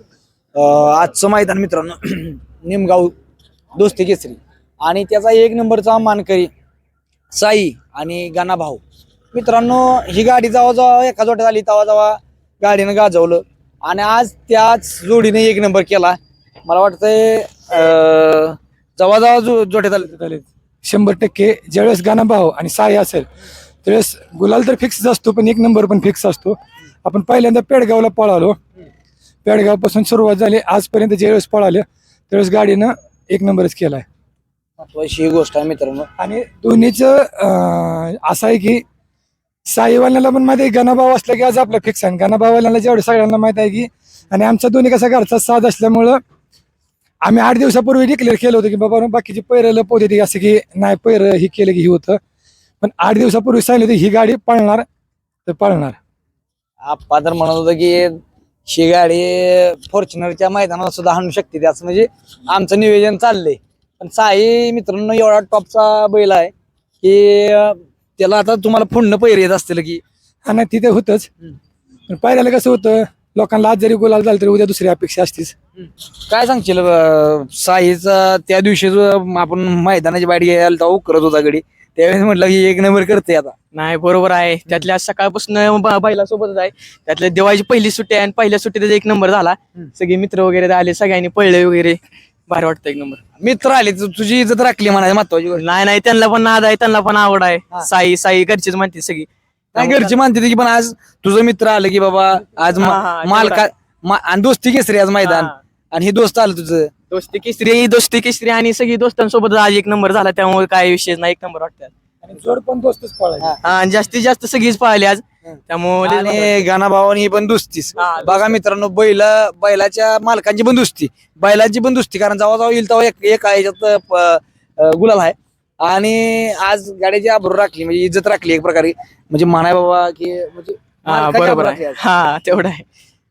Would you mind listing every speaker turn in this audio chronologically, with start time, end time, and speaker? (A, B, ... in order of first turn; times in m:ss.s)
0:00.6-0:03.1 A
0:03.8-0:06.5 A
0:07.3-0:20.1 A
0:20.1-0:23.3 B
0:23.8-0:28.6 B
0:29.4-0:34.0 B
0:34.8-0:36.1 A
0:36.2-0:38.8 B
0:39.7-0:46.2 B
0:47.2-0:52.2 B
0:52.8-0:54.8 B
0:55.5-0:56.0 B
0:56.8-1:10.0 A
1:10.5-1:11.3 B
1:12.1-1:15.6 B
1:16.3-1:23.6 A
1:23.7-1:33.2 C
1:33.4-1:35.6 A
1:35.6-1:40.2 C
1:39.8-1:46.9 A
1:42.8-1:43.7 C
1:45.2-1:45.5 C
1:47.1-1:51.9 C
1:52.2-1:53.5 B
1:53.6-1:56.6 C
1:55.5-2:12.0 A
1:58.0-1:58.5 C
2:11.0-2:12.8 C